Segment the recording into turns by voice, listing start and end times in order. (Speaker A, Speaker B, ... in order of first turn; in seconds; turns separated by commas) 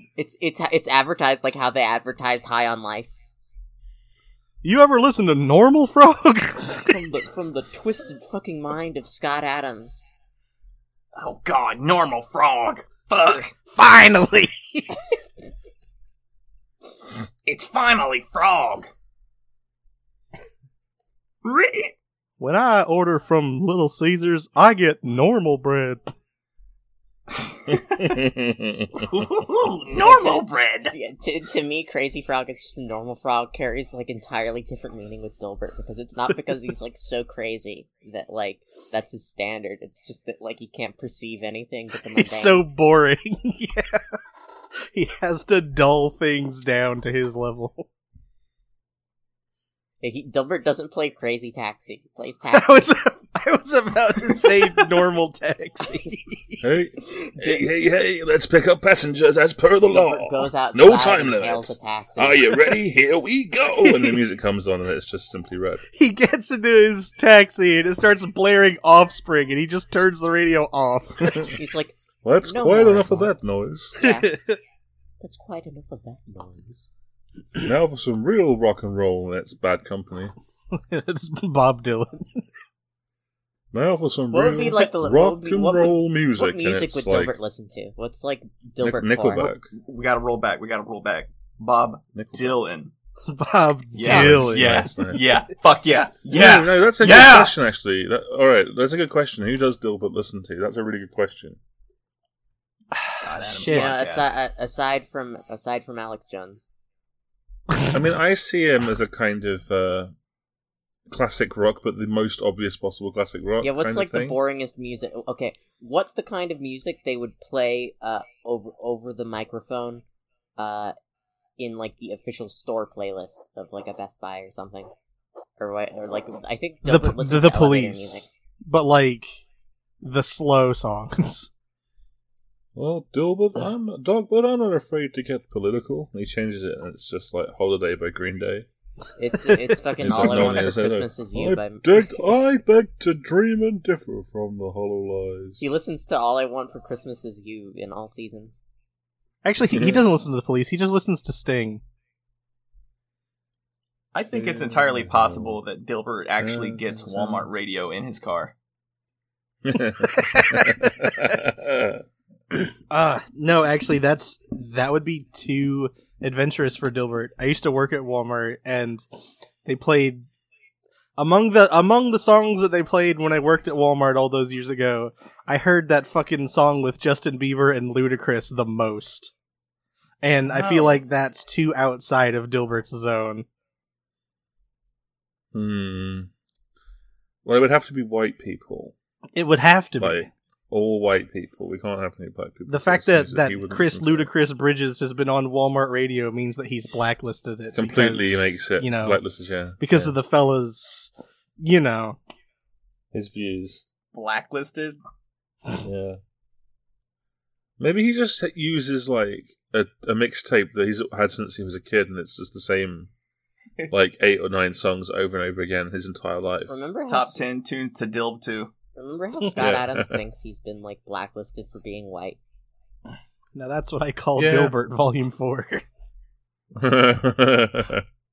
Speaker A: 0.2-3.1, Speaker B: 4.6-7.0, Speaker A: 6.8-10.0, Speaker C: 11.2-13.5, Speaker B: 13.7-15.0, Speaker C: 17.4-18.9, Speaker C: 21.4-21.9, Speaker B: 22.4-26.1, Speaker C: 27.7-28.2, Speaker D: 28.0-29.0, Speaker C: 28.9-30.9, Speaker A: 30.0-42.6, Speaker B: 42.1-44.0, Speaker B: 44.9-47.9, Speaker A: 50.0-52.9, Speaker B: 52.5-56.6, Speaker D: 56.6-65.8, Speaker A: 57.3-57.6, Speaker A: 59.9-62.8, Speaker B: 63.8-64.2, Speaker B: 65.9-71.5, Speaker A: 71.5-73.3, Speaker D: 72.2-74.0, Speaker A: 74.0-74.4, Speaker B: 74.0-74.6, Speaker A: 75.2-76.8, Speaker D: 77.6-80.3, Speaker B: 80.7-82.5, Speaker D: 83.7-87.3, Speaker A: 84.3-89.5, Speaker D: 88.8-89.7, Speaker C: 89.7-92.9, Speaker D: 92.1-92.6, Speaker B: 93.3-94.9, Speaker C: 93.9-97.5, Speaker D: 94.0-95.4, Speaker D: 96.3-101.6, Speaker C: 103.1-104.4, Speaker B: 103.4-103.9, Speaker A: 103.7-106.7, Speaker D: 107.9-110.1, Speaker D: 111.1-114.4, Speaker A: 113.6-120.0, Speaker A: 120.6-120.9, Speaker A: 121.6-124.9, Speaker A: 125.6-128.3, Speaker B: 126.8-129.4, Speaker B: 130.0-131.5, Speaker D: 132.8-138.7, Speaker A: 139.2-142.3, Speaker D: 140.0-145.6, Speaker A: 145.6-148.6, Speaker B: 149.4-151.8, Speaker D: 149.7-150.0, Speaker C: 154.1-158.5, Speaker D: 154.3-155.6, Speaker D: 156.4-157.5, Speaker D: 159.7-162.0, Speaker B: 160.0-161.1, Speaker B: 162.9-169.1, Speaker B: 169.7-170.3, Speaker B: 171.2-179.3, Speaker B: 180.2-183.5, Speaker C: 180.5-181.0, Speaker D: 185.5-186.3, Speaker D: 187.4-188.9, Speaker B: 189.3-190.3, Speaker D: 190.0-194.3, Speaker B: 192.7-199.2, Speaker D: 197.7-200.2, Speaker B: 199.8-202.2, Speaker D: 203.1-203.8, Speaker C: 204.1-205.0, Speaker D: 205.8-206.2, Speaker D: 207.8-213.1, Speaker D: 213.9-216.8, Speaker A: 216.7-217.5, Speaker C: 217.1-218.7, Speaker A: 218.9-222.4, Speaker D: 219.5-220.2, Speaker B: 223.6-225.8, Speaker D: 224.4-224.8, Speaker D: 226.8-228.0